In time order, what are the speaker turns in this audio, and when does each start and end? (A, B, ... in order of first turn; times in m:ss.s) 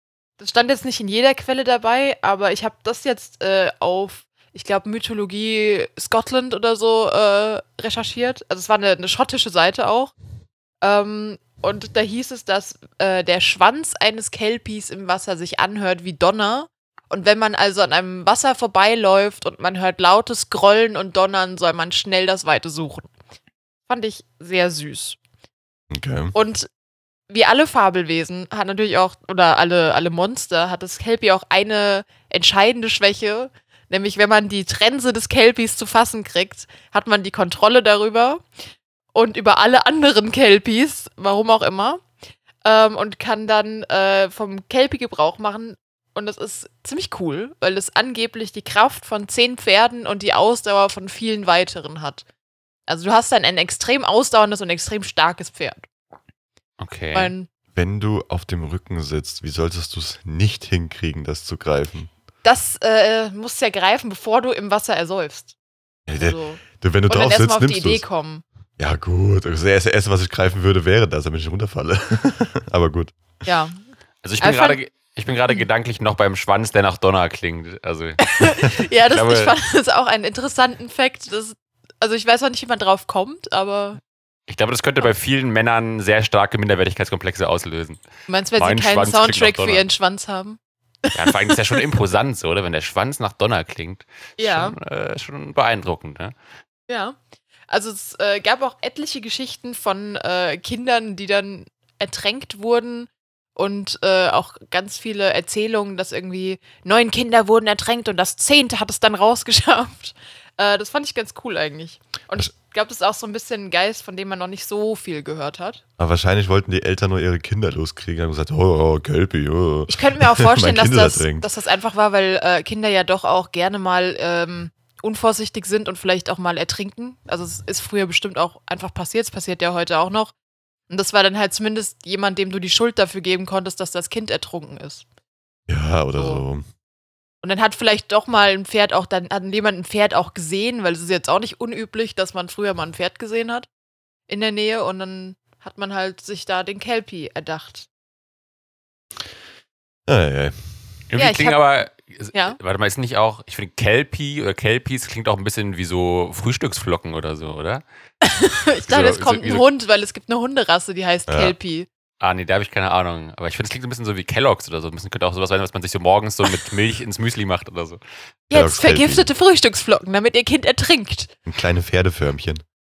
0:00.4-0:10.1 A
0:10.8-0:23.1 A
0:23.9-0:25.2 A
0:25.9-0:26.3 B
0:26.3-0:26.7 A
0:27.3-0:38.4 A
0:39.1-0:42.0 A
0:42.6-0:52.2 A
0:52.9-0:55.8 A
0:56.8-0:57.3 C
0:57.1-0:57.5 A
0:57.7-1:02.1 B
1:02.4-1:05.5 A
1:06.1-1:08.0 B
1:06.1-1:08.4 A
1:08.8-1:13.1 B
1:13.4-1:13.8 A
1:14.2-1:18.3 C
1:14.4-1:14.8 A
1:18.2-1:24.0 A
1:19.1-1:19.6 C
1:24.5-1:28.0 C
1:28.3-1:31.8 A
1:28.6-1:29.8 C
1:31.1-1:36.4 C
1:34.4-1:34.8 A
1:36.9-1:37.2 A
1:37.7-1:55.8 A
1:56.0-2:01.5 B
1:59.9-2:10.3 A
2:10.9-2:15.0 A
2:15.7-2:16.6 B
2:16.2-2:16.4 A
2:17.4-2:23.7 A
2:24.3-2:27.9 A
2:30.1-2:30.8 B
2:31.1-2:37.8 C
2:31.2-2:31.7 A
2:38.2-2:41.9 A
2:38.7-2:39.6 C
2:41.3-2:41.5 B
2:42.2-2:48.0 C
2:48.5-2:49.3 B
2:48.5-2:51.3 A
2:51.5-2:52.6 B